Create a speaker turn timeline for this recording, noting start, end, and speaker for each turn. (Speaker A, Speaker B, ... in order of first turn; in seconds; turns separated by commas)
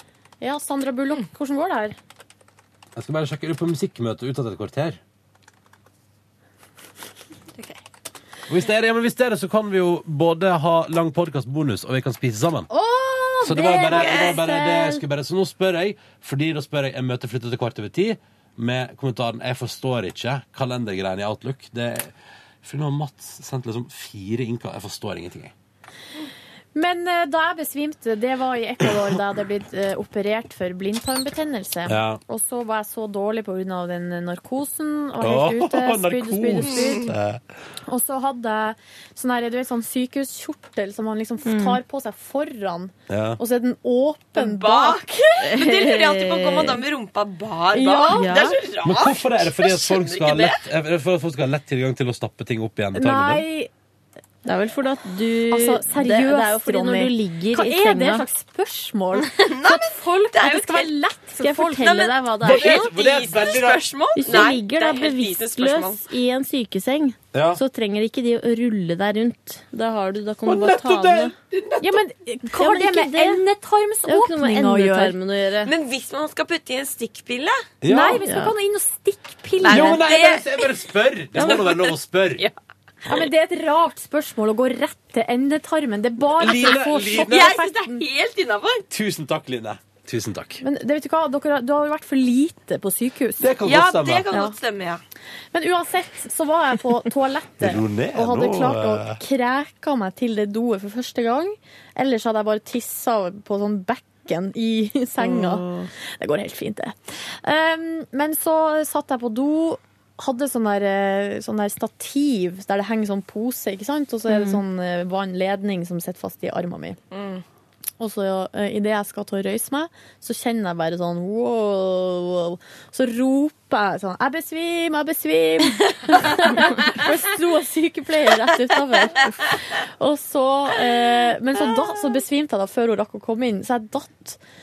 Speaker A: 0.4-2.0, Speaker B: 3.0-5.0, Speaker B: 8.5-12.7, Speaker A: 12.7-15.0, Speaker B: 13.4-25.5, Speaker C: 13.9-14.4, Speaker A: 26.7-37.1, Speaker B: 31.9-32.2, Speaker B: 35.2-37.4, Speaker C: 36.7-37.0, Speaker A: 37.9-45.1, Speaker D: 41.4-41.8, Speaker B: 43.1-43.4, Speaker C: 44.3-50.6, Speaker D: 45.5-46.8, Speaker A: 47.7-48.4, Speaker D: 48.1-48.6, Speaker B: 48.8-53.4, Speaker A: 52.9-53.7, Speaker D: 54.4-58.2, Speaker A: 55.5-62.1, Speaker C: 59.1-60.9, Speaker D: 61.4-62.9, Speaker C: 61.8-66.0, Speaker B: 62.4-64.4, Speaker D: 64.2-71.3, Speaker B: 67.3-67.6, Speaker B: 70.4-71.9, Speaker A: 71.8-75.2, Speaker D: 72.5-73.4, Speaker D: 74.0-75.7, Speaker C: 75.6-77.6, Speaker B: 77.8-78.4, Speaker A: 77.8-80.1, Speaker D: 78.2-78.5, Speaker C: 79.6-80.8, Speaker B: 79.7-82.4, Speaker C: 81.3-82.5, Speaker A: 83.0-88.0, Speaker B: 86.3-87.6, Speaker C: 87.1-88.8, Speaker B: 88.9-90.6, Speaker A: 90.6-93.5, Speaker B: 93.4-94.2, Speaker C: 93.6-95.0, Speaker A: 95.5-117.0, Speaker B: 97.6-99.2, Speaker D: 105.2-105.9, Speaker D: 114.3-114.6, Speaker C: 117.1-117.4, Speaker A: 118.0-134.4